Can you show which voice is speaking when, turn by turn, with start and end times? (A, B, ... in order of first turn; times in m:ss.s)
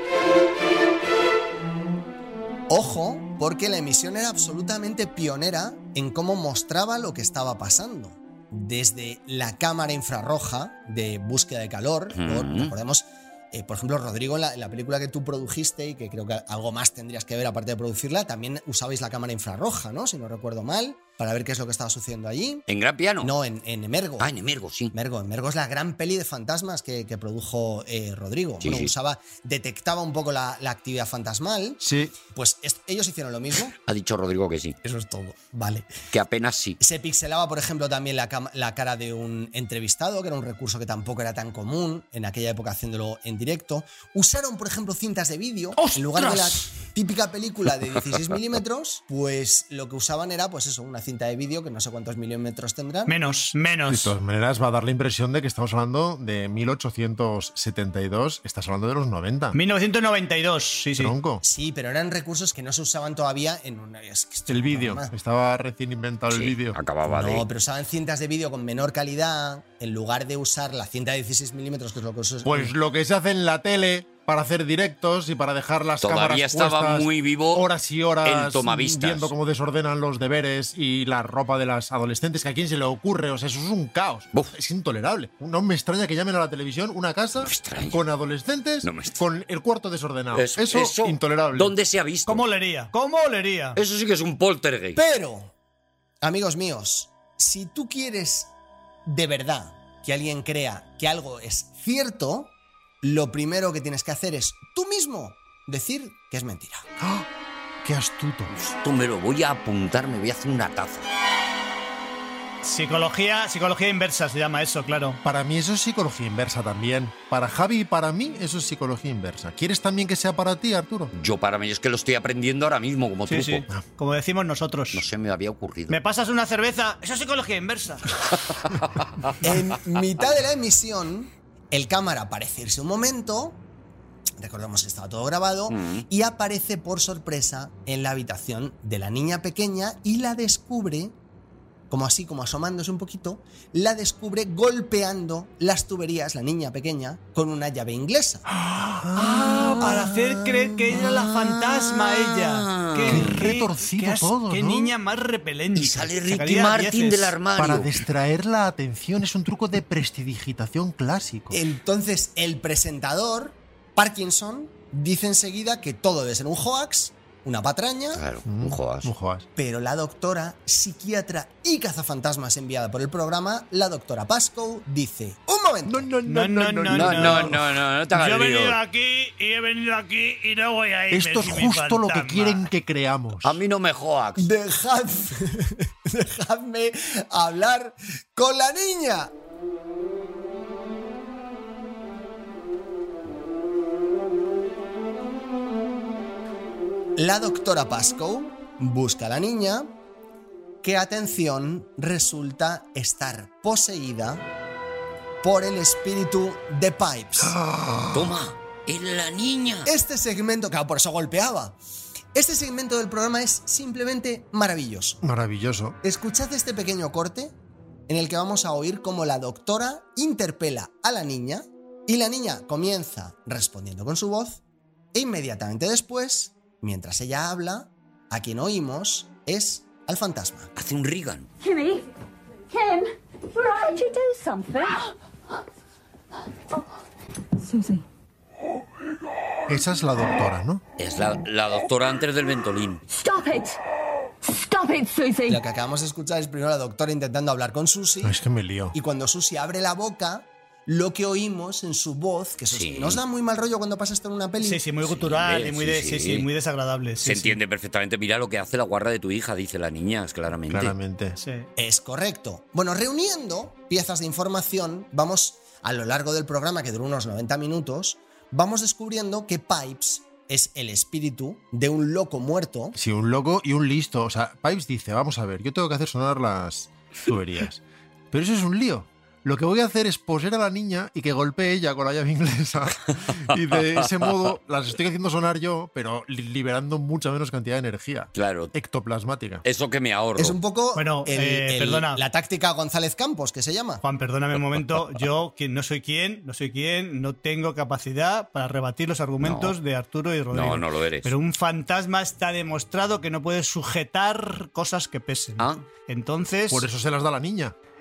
0:02.7-0:22.6 A
0:12.1-0:12.7 B
0:22.7-0:23.4 B
0:23.2-0:24.3 A
0:24.2-0:24.9 B
0:24.9-0:33.8 A
0:28.6-0:28.9 B
0:31.8-0:32.2 C
0:33.8-0:34.8 B
0:34.8-0:36.0 A
0:36.1-0:36.8 B
0:36.8-0:53.2 A
0:45.8-0:46.7 B
0:53.1-0:54.2 D
0:53.9-0:59.6 C
0:59.5-1:01.2 D
1:01.0-1:01.4 C
1:01.4-1:05.1 A
1:04.5-1:06.8 C
1:06.3-1:07.5 B
1:07.1-1:12.7 A
1:12.4-1:31.7 C
1:16.0-1:17.7 B
1:18.2-1:19.3 B
1:27.4-1:28.0 B
1:28.8-1:29.2 B
1:30.3-1:32.4 B
1:32.3-1:33.8 D
1:33.8-1:35.0 B
1:35.0-1:35.5 A
1:36.2-1:38.5 A
1:39.1-1:46.8 A
1:47.0-1:47.3 C
1:47.8-1:48.5 C
1:48.5-1:51.1 B
1:52.6-1:55.2 D
1:55.2-2:01.1 C
2:01.1-2:03.7 B
2:03.3-2:05.0 D
2:04.9-2:06.0 B
2:05.9-2:08.1 D
2:09.4-2:13.6 A
2:14.4-2:21.2 A
2:15.7-2:16.1 B
2:21.9-2:28.5 A
2:28.6-2:37.4 D
2:29.0-2:30.1 C
2:29.4-2:30.1 B
2:30.9-2:33.4 B
2:33.1-2:34.9 C
2:35.8-2:38.0 B
2:37.6-2:41.6 C
2:41.5-2:48.2 A
2:48.1-2:49.1 B
2:48.5-2:49.5 C
2:49.6-2:56.1 A
2:55.8-2:57.6 C
2:56.3-2:57.6 D
2:56.9-2:58.8 B
2:58.1-3:02.7 D
3:01.1-3:03.6 C
3:03.4-3:04.5 B
3:04.4-3:09.3 A
3:17.2-3:19.9 A
3:20.8-3:24.5 A
3:25.4-3:27.6 A
3:27.4-3:28.4 C
3:28.1-3:29.9 B
3:29.9-3:31.8 A
3:32.3-3:35.2 A
3:35.2-3:36.0 C
3:36.0-3:37.5 A
3:38.1-3:44.6 A
3:45.1-3:50.7 A
3:50.8-3:51.5 B
3:51.6-3:52.1 E
3:52.7-3:55.1 E
3:57.6-3:58.0 E
3:59.7-4:00.8 C
4:01.0-4:03.0 B
4:03.1-4:03.8 E
4:04.4-4:05.6 E
4:05.5-4:08.4 A
4:08.2-4:09.0 C
4:08.9-4:14.8 A
4:12.7-4:13.2 B
4:14.6-4:17.6 D
4:15.0-4:16.5 B
4:17.2-4:20.9 B
4:20.7-4:21.4 C
4:21.4-4:21.7 D
4:21.8-4:33.0 A
4:33.0-4:49.6 C
4:43.5-4:44.3 B
4:48.3-4:48.7 B
4:49.6-4:50.6 B
4:50.4-4:54.0 A
4:51.0-4:52.2 D
4:54.0-5:06.9 D
4:54.6-4:55.2 B
4:59.4-4:59.8 B
5:00.5-5:01.3 B
5:05.6-5:05.8 B
5:06.7-5:07.8 C